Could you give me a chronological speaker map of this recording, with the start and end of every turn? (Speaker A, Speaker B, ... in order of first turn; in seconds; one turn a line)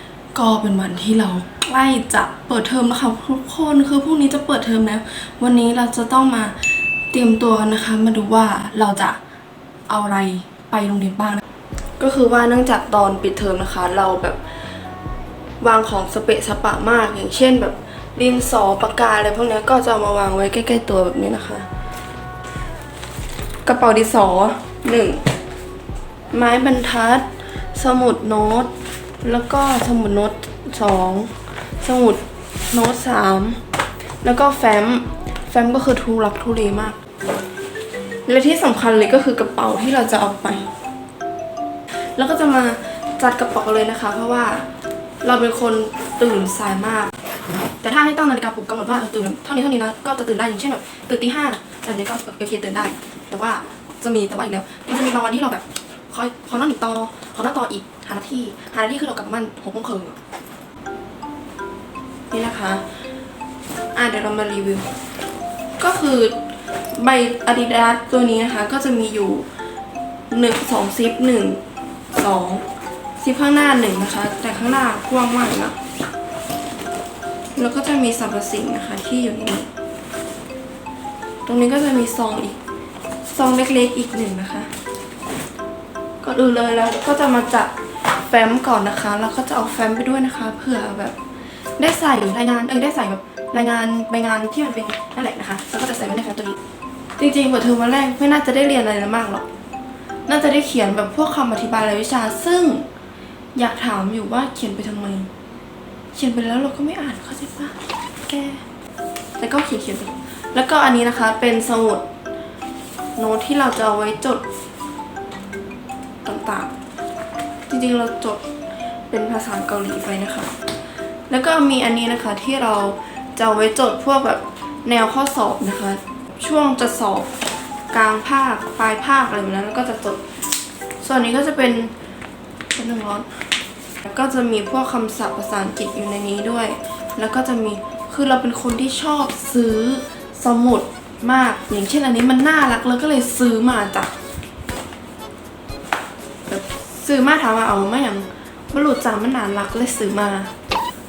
Speaker A: 0.3-9.2
Speaker A: 9.9-11.4
Speaker A: 12.0-14.4
Speaker A: 15.6-21.7
Speaker A: 23.6-25.2
Speaker A: 26.3-33.6
Speaker A: 34.2-37.0
Speaker A: 38.2-40.7
Speaker A: 41.9-44.7
Speaker A: 45.2-47.1
Speaker A: 47.8-60.2
Speaker A: 62.3-62.8
Speaker A: 63.9-64.9
Speaker A: 65.8-66.4
Speaker A: 66.9-69.5
Speaker A: 70.3-71.6
Speaker A: 72.1-72.7
Speaker A: 73.2-75.8
Speaker A: 77.5-79.7
Speaker A: 81.4-82.6
Speaker A: 83.3-84.7
Speaker A: 86.2-87.7
Speaker A: 88.3-91.2
Speaker A: 91.8-96.6
Speaker A: 97.2-99.5
Speaker A: 100.3-102.9
Speaker A: 103.5-105.3
Speaker A: 106.1-108.6
Speaker A: 109.4-112.1
Speaker A: 113.2-114.4
Speaker A: 116.2-116.7
Speaker A: 117.7-118.4
Speaker A: 119.1-120.5
Speaker A: 121.3-127.3
Speaker A: 127.9-130.2
Speaker A: 131.0-131.9
Speaker A: 132.7-133.3
Speaker A: 134.0-144.1
Speaker A: 146.5-150.5